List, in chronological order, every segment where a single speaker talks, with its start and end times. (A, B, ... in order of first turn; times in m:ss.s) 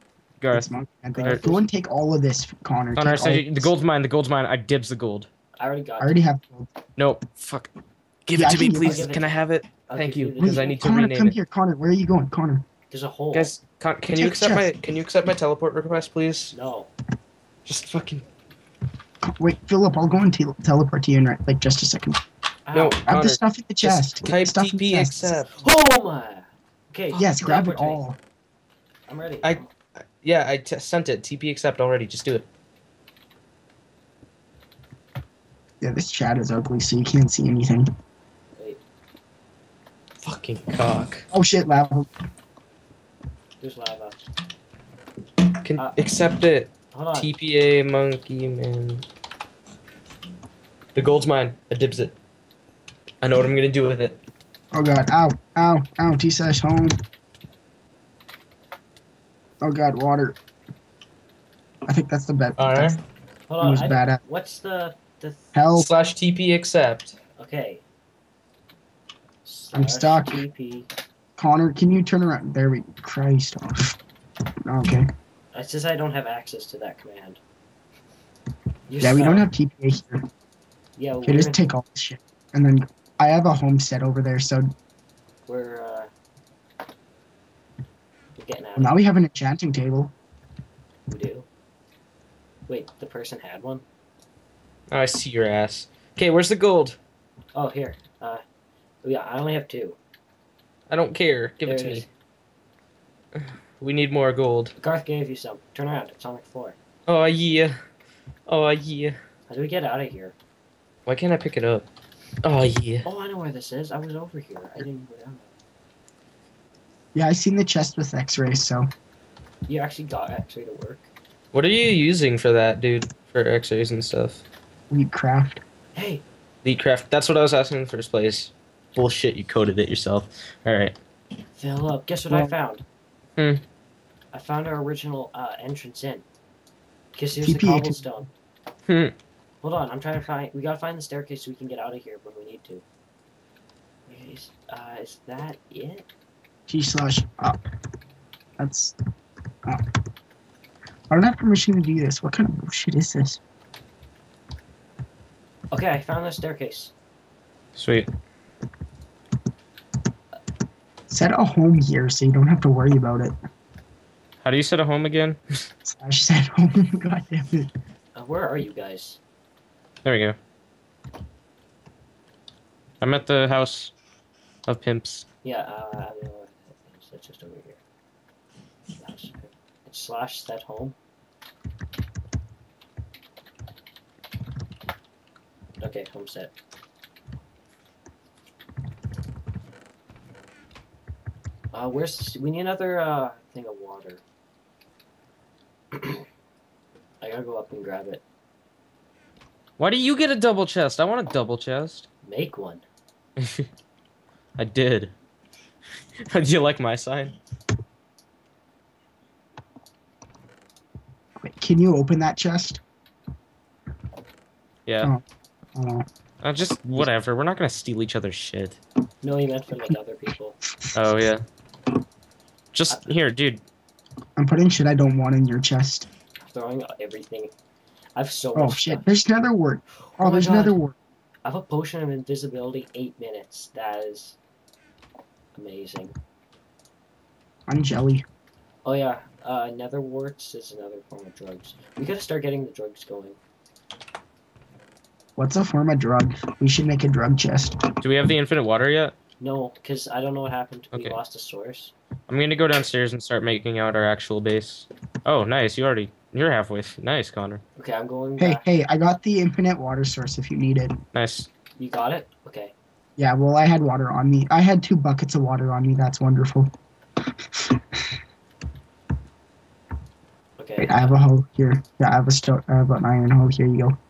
0:00.4-0:00.7 A
0:00.5-0:03.7 B
0:01.1-0:01.6 C
0:03.0-0:05.3 A
0:05.6-0:06.2 C
0:06.0-0:06.7 B
0:07.0-0:07.7 A
0:08.2-0:11.4 A
0:08.3-0:09.1 B
0:08.8-0:10.8 C
0:10.4-0:12.6 B
0:12.9-0:13.5 C
0:13.3-0:16.5 A
0:14.2-0:14.7 B
0:16.5-0:16.9 C
0:17.6-0:18.2 A
0:19.2-0:22.2 B
0:22.6-0:23.0 C
0:22.7-0:25.5 A
0:23.0-0:25.4 B
0:25.5-0:28.0 C
0:27.1-0:28.2 B
0:29.1-0:29.7 C
0:29.4-0:32.4 A
0:35.8-0:37.9 B
0:38.6-0:38.8 C
0:40.2-0:41.3 A
0:41.3-0:42.1 B
0:43.6-0:44.2 C
0:45.6-0:49.0 A
0:46.9-0:47.3 C
0:50.9-0:52.1 A
0:53.2-0:54.2 A
0:54.7-0:57.0 B
0:59.6-1:00.4 B
1:01.8-1:03.0 B
1:02.6-1:03.0 A
1:03.5-1:05.5 C
1:03.6-1:04.2 B
1:05.5-1:05.9 B
1:05.7-1:07.2 A
1:07.4-1:07.8 C
1:09.4-1:10.9 C
1:09.7-1:10.4 B
1:11.4-1:14.0 B
1:14.6-1:15.1 B
1:15.5-1:17.4 C
1:18.9-1:19.5 C
1:19.0-1:20.3 B
1:21.0-1:21.6 C
1:21.2-1:24.7 B
1:25.5-1:26.1 C
1:28.4-1:29.0 C
1:28.8-1:30.1 B
1:31.1-1:31.4 C
1:32.7-1:33.8 C
1:34.9-1:37.0 A
1:37.5-1:38.4 C
1:39.0-1:40.0 C
1:40.9-1:42.0 A
1:41.6-1:42.1 C
1:43.4-1:44.7 A
1:44.8-1:46.8 C
1:47.1-1:47.8 A
1:48.5-1:49.2 A
1:49.5-1:50.3 C
1:51.0-1:51.8 A
1:52.4-1:53.1 A
1:53.0-1:55.5 C
1:57.1-1:58.9 B
1:59.7-2:01.1 C
2:01.5-2:04.4 A
2:04.9-2:05.6 B
2:05.9-2:06.2 C
2:06.6-2:10.9 A
2:11.6-2:12.8 C
2:13.4-2:13.6 A
2:14.3-2:16.2 C
2:17.1-2:18.3 C
2:17.4-2:18.0 B
2:18.9-2:19.1 A
2:19.6-2:22.8 C
2:24.1-2:26.0 C
2:26.7-2:27.6 B
2:28.6-2:28.9 B
2:31.1-2:33.4 B
2:35.7-2:36.9 C
2:37.8-2:38.1 A
2:41.1-2:43.3 B
2:44.4-2:45.4 A
2:45.8-2:47.7 B
2:48.1-2:49.2 C
2:50.0-2:50.4 A
2:53.0-2:53.9 A
2:54.7-2:55.2 A
2:55.4-2:57.8 C
2:59.0-3:00.9 C
3:05.8-3:06.5 C
3:11.7-3:14.2 C
3:15.9-3:16.2 C
3:17.2-3:18.2 C
3:19.8-3:22.0 A
3:22.2-3:22.8 C
3:23.4-3:23.6 A
3:24.6-3:25.1 A
3:26.3-3:27.4 A
3:31.4-3:32.8 B
3:34.8-3:35.1 A
3:35.7-3:36.0 B
3:36.4-3:38.8 A
3:39.2-3:40.6 C
3:40.8-3:41.2 B
3:40.9-3:41.4 A
3:42.7-3:43.6 A
3:44.4-3:46.1 B
3:46.4-3:47.5 C
3:48.2-3:49.1 C
3:48.5-3:50.9 B
3:50.1-3:50.8 C
3:51.4-3:54.4 C
3:55.5-3:56.1 C
3:57.7-3:58.2 B
3:58.8-4:03.4 C
4:05.4-4:07.8 B
4:08.0-4:09.1 A
4:09.4-4:11.9 C
4:12.3-4:17.6 A
4:17.8-4:18.6 C
4:18.4-4:21.0 B
4:21.1-4:21.5 A
4:21.8-4:22.7 C
4:23.2-4:26.7 B
4:27.5-4:28.1 B
4:30.6-4:31.1 C
4:30.8-4:34.0 B